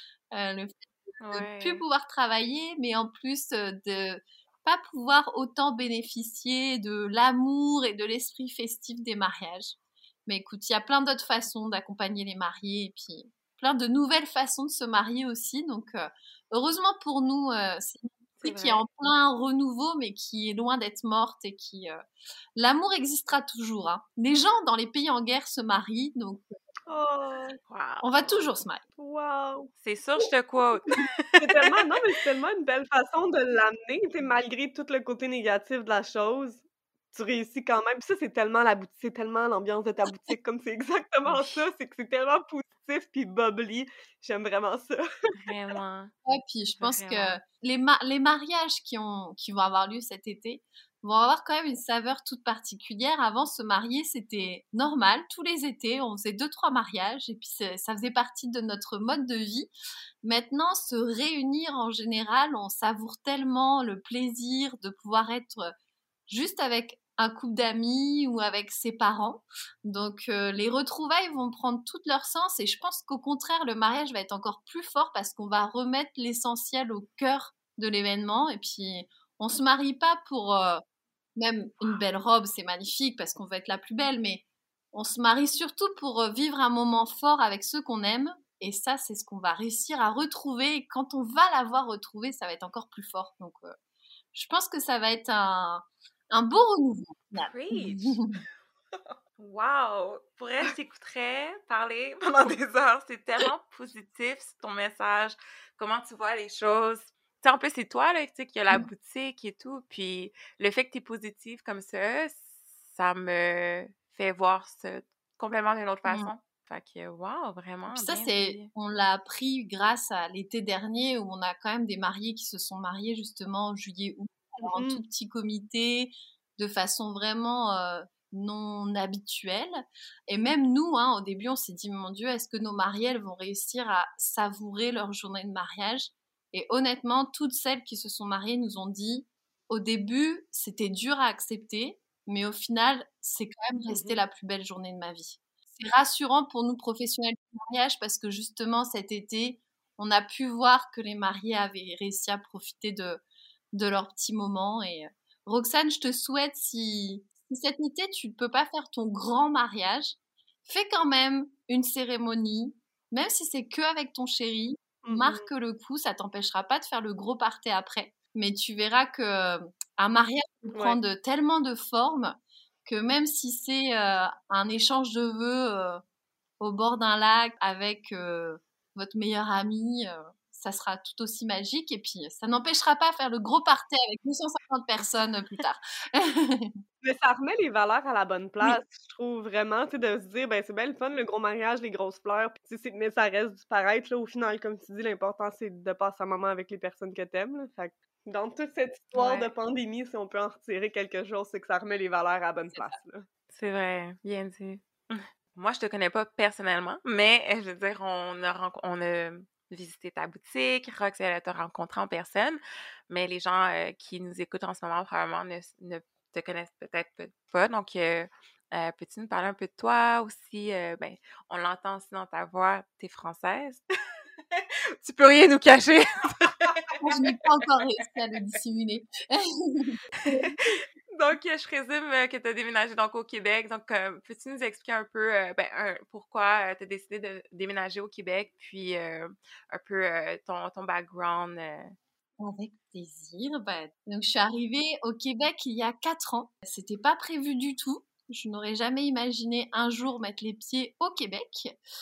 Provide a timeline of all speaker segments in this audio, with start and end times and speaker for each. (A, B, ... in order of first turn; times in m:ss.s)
0:00.3-0:22.0 A
0:01.2-0:01.8 B
0:18.4-0:18.8 B
0:22.6-0:26.4 A
0:26.9-0:27.6 C
0:27.7-0:28.5 B
0:28.0-0:28.8 A
0:29.0-0:29.7 C
0:29.8-0:31.8 B
0:31.4-0:45.0 C
0:41.3-0:41.6 B
0:45.3-0:46.1 B
0:46.3-0:59.7 A
0:46.8-0:47.4 B
1:00.2-1:05.7 A
1:06.3-1:20.8 A
1:21.4-1:33.7 A
1:34.3-1:38.4 A
1:37.4-1:38.3 B
1:39.4-1:58.7 B
1:56.0-1:56.3 A
1:57.9-2:33.2 A
2:04.6-2:05.0 C
2:23.9-2:24.2 C
2:33.7-2:40.2 A
2:40.7-2:56.0 A
2:45.0-2:45.5 C
2:50.7-2:51.0 C
2:56.6-3:06.8 A
3:07.0-3:23.3 C
3:19.1-3:19.5 B
3:23.5-3:43.8 B
3:44.5-3:47.4 B
3:47.0-3:50.6 A
3:50.2-4:01.9 B
4:02.4-4:11.8 A